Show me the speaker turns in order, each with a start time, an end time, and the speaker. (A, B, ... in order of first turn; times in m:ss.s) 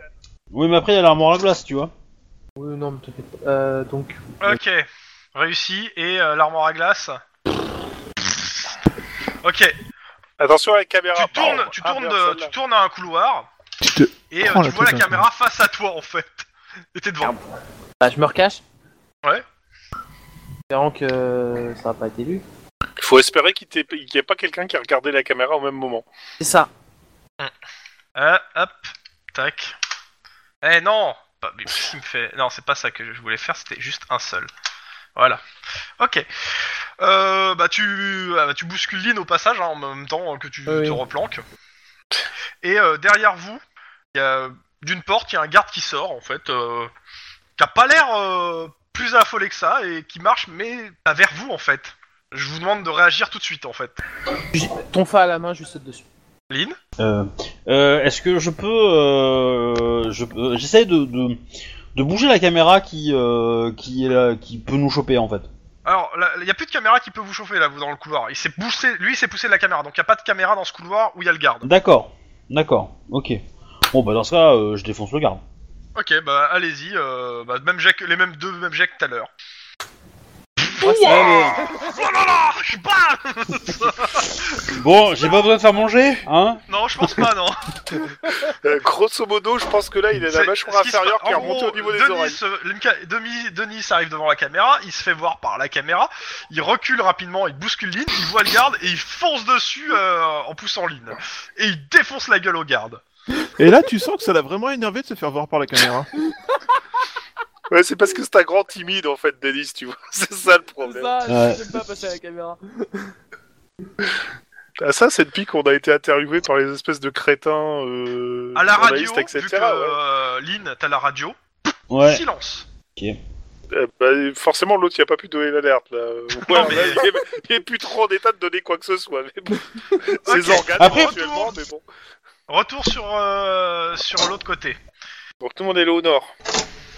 0:00.5-0:01.9 A
0:02.6-0:04.2 B
0:04.4-0:07.2 C
0:08.2-0:08.7 C
0:09.4-0:09.7 C
0:10.4-0:12.5 D
0:11.2-0:13.5 C
0:13.8-0:15.2 E
0:14.3-0:17.4 C
0:18.0-0:18.6 B
0:20.7-0:22.4 B
0:23.0-0:26.0 D
0:26.4-0:26.7 B
0:28.2-0:29.7 C
0:30.6-0:34.5 C
0:35.2-0:35.4 C
0:36.0-0:36.2 C
0:37.0-0:41.4 C
0:40.7-0:41.0 B
0:42.6-0:43.6 C
0:44.1-0:46.9 C
0:47.6-0:54.0 C
0:54.5-0:56.0 B
0:56.5-0:56.8 C
0:57.0-1:01.4 A
1:01.9-1:05.5 A
1:05.8-1:11.7 C
1:11.6-1:13.4 A
1:13.9-1:15.4 A
1:16.0-1:19.3 C
1:20.6-1:24.7 C
1:20.8-1:21.9 B
1:21.0-1:21.6 A
1:24.6-1:27.2 A
1:26.7-1:28.0 C
1:28.4-1:32.4 D
1:30.3-1:43.0 C
1:43.6-1:46.1 E
1:47.7-1:51.1 D
1:50.8-1:53.1 B
1:51.3-1:51.6 A
1:54.8-2:00.0 D
1:58.6-2:01.4 C
2:01.9-2:02.2 A
2:01.9-2:02.6 C
2:03.7-2:11.8 D
2:06.4-2:07.0 C
2:10.2-2:11.5 C
2:10.8-2:11.2 A
2:12.5-2:14.8 C
2:15.4-2:16.3 D